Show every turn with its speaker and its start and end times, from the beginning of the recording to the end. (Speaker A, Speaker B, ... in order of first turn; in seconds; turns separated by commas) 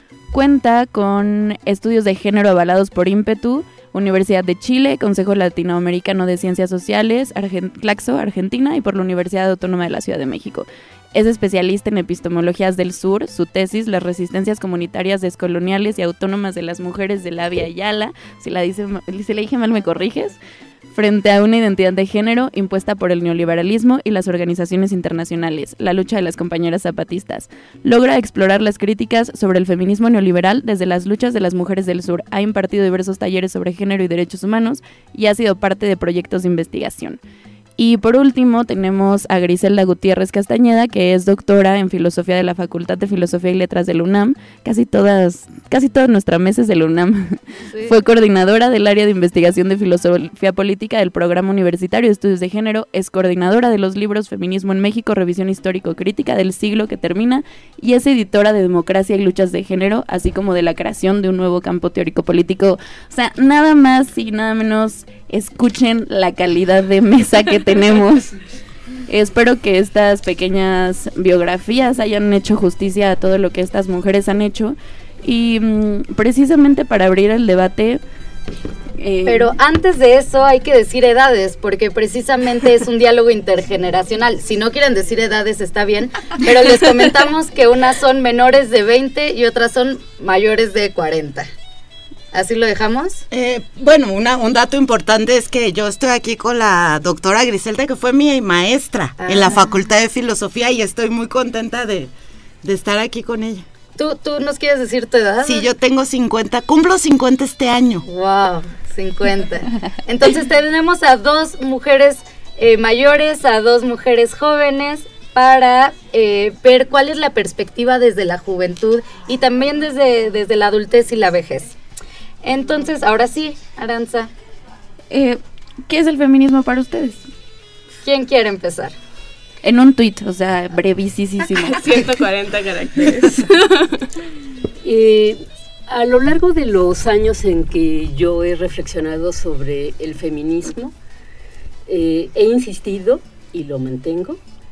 Speaker A: 0.3-20.4, Speaker A: 20.9-37.2, Speaker A: 37.8-68.3, Speaker A: 69.1-78.0, Speaker A: 79.0-79.5, Speaker B: 79.2-91.5, Speaker B: 92.3-93.2, Speaker C: 93.3-102.1, Speaker B: 99.2-99.7, Speaker C: 102.6-103.7, Speaker B: 104.0-105.7, Speaker C: 105.4-108.0, Speaker B: 108.1-121.7, Speaker B: 122.4-124.3, Speaker A: 125.1-127.3, Speaker B: 128.0-128.9, Speaker A: 129.6-131.8, Speaker D: 131.7-133.9, Speaker E: 134.8-140.9, Speaker E: 141.9-144.4